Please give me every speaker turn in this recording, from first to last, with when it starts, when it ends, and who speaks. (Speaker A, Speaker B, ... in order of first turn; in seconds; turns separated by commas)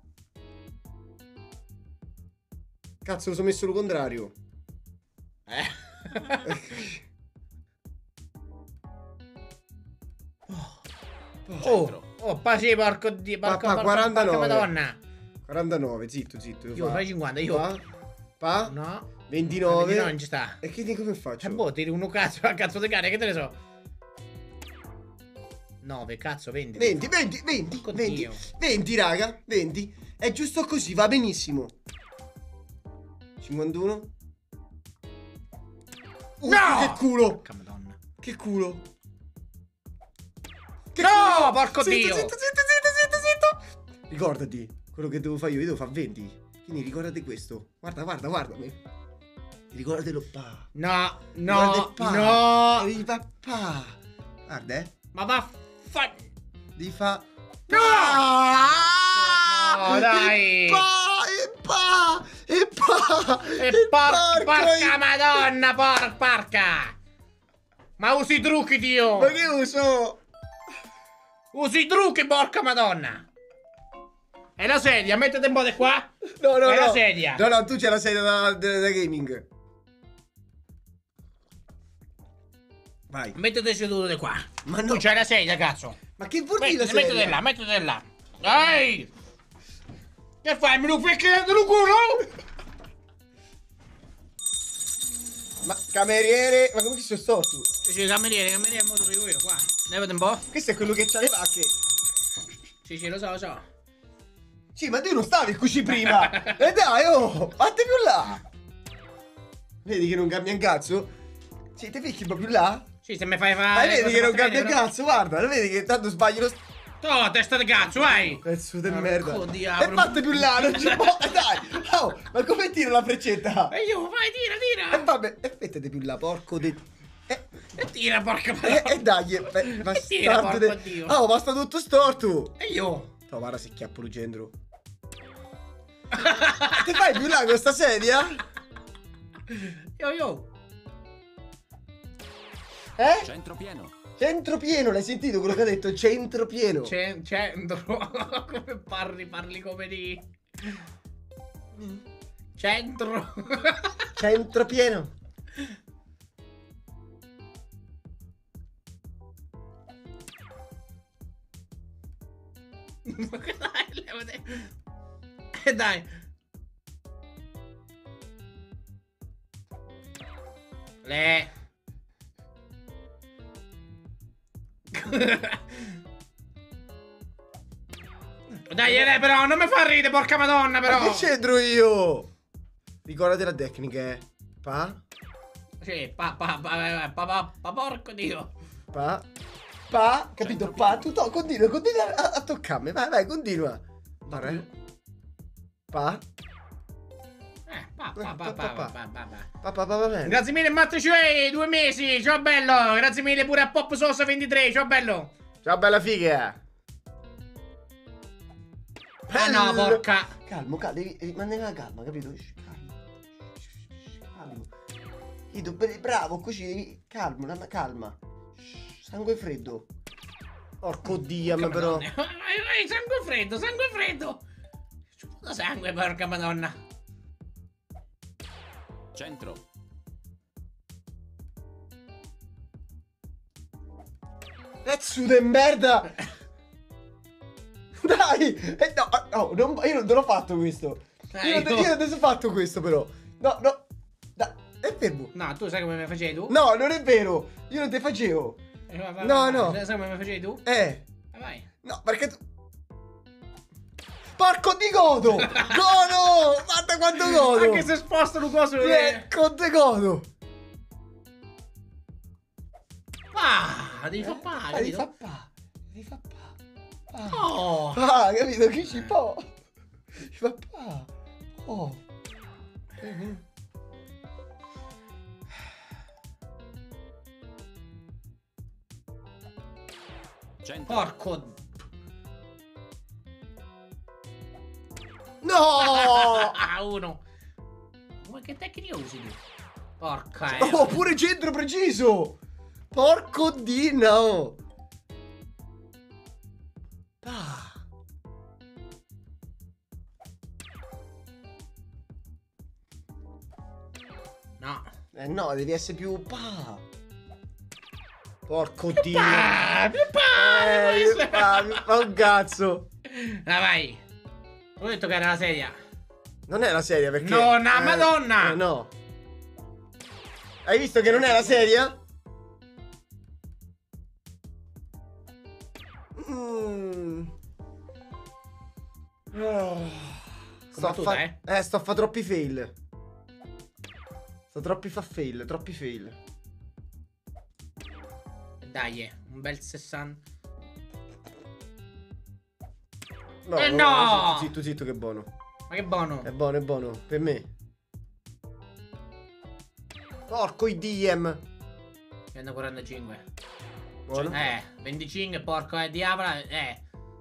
Speaker A: 3.0-4.3, Speaker B: 5.5-6.5, Speaker A: 6.4-7.0, Speaker C: 11.5-12.0, Speaker B: 11.6-15.0, Speaker A: 13.4-14.7, Speaker A: 15.5-17.8, Speaker B: 16.8-17.7, Speaker A: 18.4-18.7, Speaker B: 18.7-19.1, Speaker A: 19.3-21.6, Speaker B: 19.6-20.6, Speaker B: 21.4-23.6, Speaker B: 25.8-27.1, Speaker A: 26.8-31.7, Speaker B: 27.8-28.4, Speaker A: 33.4-34.1, Speaker A: 36.4-37.4, Speaker B: 36.5-38.0, Speaker A: 38.2-38.9, Speaker A: 40.9-48.8, Speaker B: 41.0-42.3, Speaker A: 49.7-50.7, Speaker B: 50.8-52.9, Speaker A: 51.5-54.9, Speaker B: 55.1-56.3, Speaker A: 56.8-65.0, Speaker B: 57.7-58.3, Speaker B: 59.1-60.8, Speaker B: 63.6-67.0, Speaker B: 68.0-69.3, Speaker A: 69.2-70.2, Speaker B: 71.5-73.3, Speaker B: 74.6-76.1, Speaker A: 76.2-79.5, Speaker B: 76.6-77.4, Speaker A: 83.1-83.4, Speaker B: 83.3-86.0, Speaker A: 84.7-85.1, Speaker A: 86.2-87.4, Speaker B: 86.6-89.1, Speaker B: 90.4-92.3, Speaker A: 95.6-97.7, Speaker B: 97.8-100.5, Speaker A: 100.5-101.8, Speaker B: 102.8-103.7, Speaker A: 104.8-108.4, Speaker B: 106.2-106.6, Speaker A: 109.8-111.1, Speaker A: 111.8-112.9, Speaker B: 113.0-114.8, Speaker A: 113.7-116.6, Speaker B: 117.0-121.4, Speaker A: 118.3-123.7, Speaker B: 123.7-125.1, Speaker A: 124.9-127.5, Speaker B: 127.8-131.2, Speaker A: 128.6-132.6, Speaker B: 132.6-133.1, Speaker A: 133.3-134.5, Speaker B: 136.1-136.8, Speaker A: 136.7-138.4, Speaker B: 139.5-140.5, Speaker A: 143.0-143.3, Speaker C: 143.2-143.9, Speaker A: 144.2-146.9, Speaker B: 146.8-150.8, Speaker A: 151.8-152.0, Speaker B: 152.6-154.1, Speaker A: 154.2-155.1, Speaker B: 163.1-164.7, Speaker B: 165.6-166.1, Speaker B: 171.0-171.5, Speaker B: 174.9-175.9, Speaker B: 178.6-181.3, Speaker A: 180.9-182.3, Speaker A: 183.1-185.0, Speaker B: 185.8-188.5, Speaker A: 188.9-189.3, Speaker A: 189.9-194.7, Speaker B: 194.3-194.7, Speaker A: 195.9-196.2, Speaker B: 197.7-199.5, Speaker A: 198.2-198.9, Speaker A: 199.6-200.4, Speaker B: 200.2-205.3, Speaker A: 205.6-206.6, Speaker A: 209.3-213.0, Speaker B: 209.3-210.4, Speaker A: 214.2-214.7, Speaker A: 215.5-219.9, Speaker A: 220.8-222.1, Speaker B: 221.4-224.4, Speaker B: 225.2-226.8, Speaker C: 229.1-229.6, Speaker A: 234.8-236.1, Speaker A: 238.0-243.8, Speaker B: 241.3-241.9, Speaker A: 244.4-245.3, Speaker B: 245.3-246.6, Speaker A: 246.5-248.6, Speaker B: 248.9-250.6, Speaker A: 249.2-249.8, Speaker A: 250.7-251.0, Speaker B: 251.3-251.7, Speaker A: 251.8-252.4, Speaker A: 254.3-257.9, Speaker B: 255.4-255.8, Speaker B: 257.2-259.3, Speaker A: 258.8-260.3, Speaker B: 263.3-265.1, Speaker A: 264.2-266.6, Speaker A: 267.1-269.5, Speaker B: 267.3-268.0, Speaker A: 270.1-272.0, Speaker A: 273.0-273.4, Speaker C: 280.6-281.1, Speaker B: 280.9-281.6, Speaker A: 285.4-286.6, Speaker B: 285.8-287.2, Speaker B: 288.2-289.4, Speaker B: 290.0-290.9, Speaker A: 290.5-292.4, Speaker A: 292.9-294.6, Speaker A: 297.2-297.8, Speaker B: 304.6-304.9, Speaker A: 305.1-306.9, Speaker A: 308.5-309.6, Speaker B: 309.0-311.9, Speaker A: 310.3-312.9, Speaker B: 313.1-314.0, Speaker B: 314.8-315.8, Speaker A: 316.5-318.9, Speaker B: 317.2-318.6, Speaker A: 320.6-322.0, Speaker B: 321.1-321.6, Speaker A: 326.1-327.3, Speaker A: 329.3-332.7, Speaker B: 330.7-331.4, Speaker A: 334.5-336.2, Speaker B: 338.6-340.2, Speaker A: 343.4-345.3, Speaker B: 343.6-344.5, Speaker B: 345.7-346.3, Speaker A: 346.2-347.5, Speaker A: 350.3-351.4, Speaker B: 352.3-353.2, Speaker A: 354.1-354.5, Speaker B: 354.1-356.8